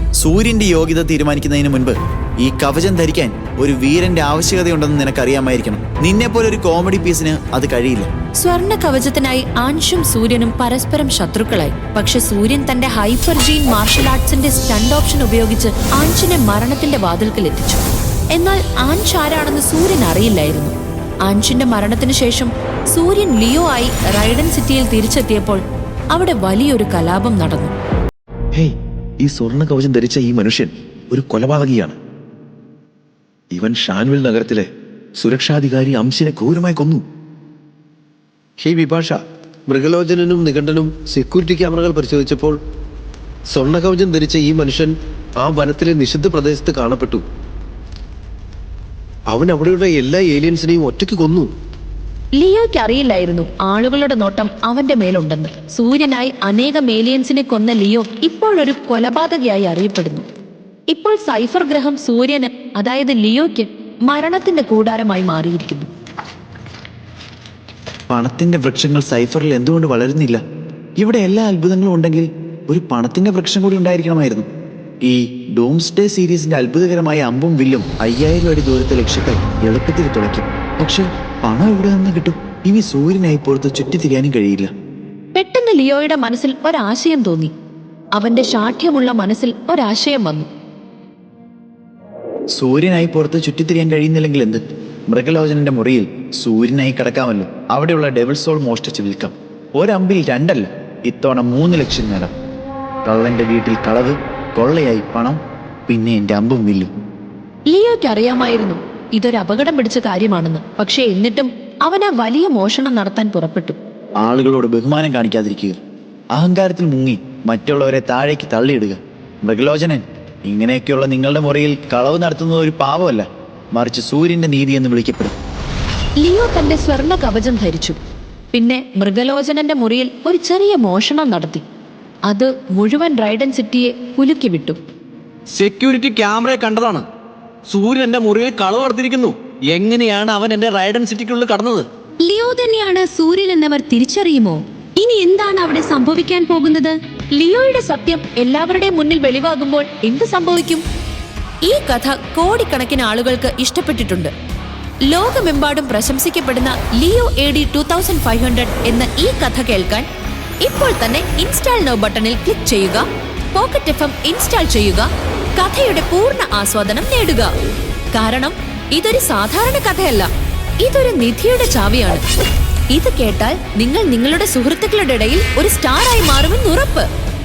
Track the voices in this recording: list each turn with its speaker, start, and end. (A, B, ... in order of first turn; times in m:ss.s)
0:00.2-0:08.1 A
0:08.4-0:17.8 B
0:18.3-0:20.7 B
0:21.3-0:25.6 B
0:26.1-0:27.7 B
0:28.5-0:32.0 C
0:33.5-0:37.0 C
0:38.6-0:42.6 D
0:43.5-0:47.2 D
0:49.3-0:51.5 D
0:52.4-1:00.2 B
1:00.9-1:05.9 B
1:08.1-1:10.4 A
1:11.0-1:14.5 A
1:15.0-1:24.7 A
1:25.3-1:27.5 B
1:28.2-1:30.5 B
1:32.6-1:42.3 A
1:43.0-1:46.9 A
1:47.7-1:53.8 B
1:54.2-1:55.8 A
1:56.3-2:05.3 A
2:06.2-2:08.0 B
2:08.5-2:11.6 B
2:12.3-2:14.8 B
2:15.6-2:17.0 E
2:17.7-2:21.8 E
2:22.3-2:24.5 F
2:25.1-2:26.9 F
2:27.3-2:30.8 B
2:31.6-2:34.3 B
2:35.1-2:40.0 B
2:40.6-2:47.5 B
2:48.1-2:50.3 B
2:50.8-2:52.2 B
2:52.9-2:57.1 B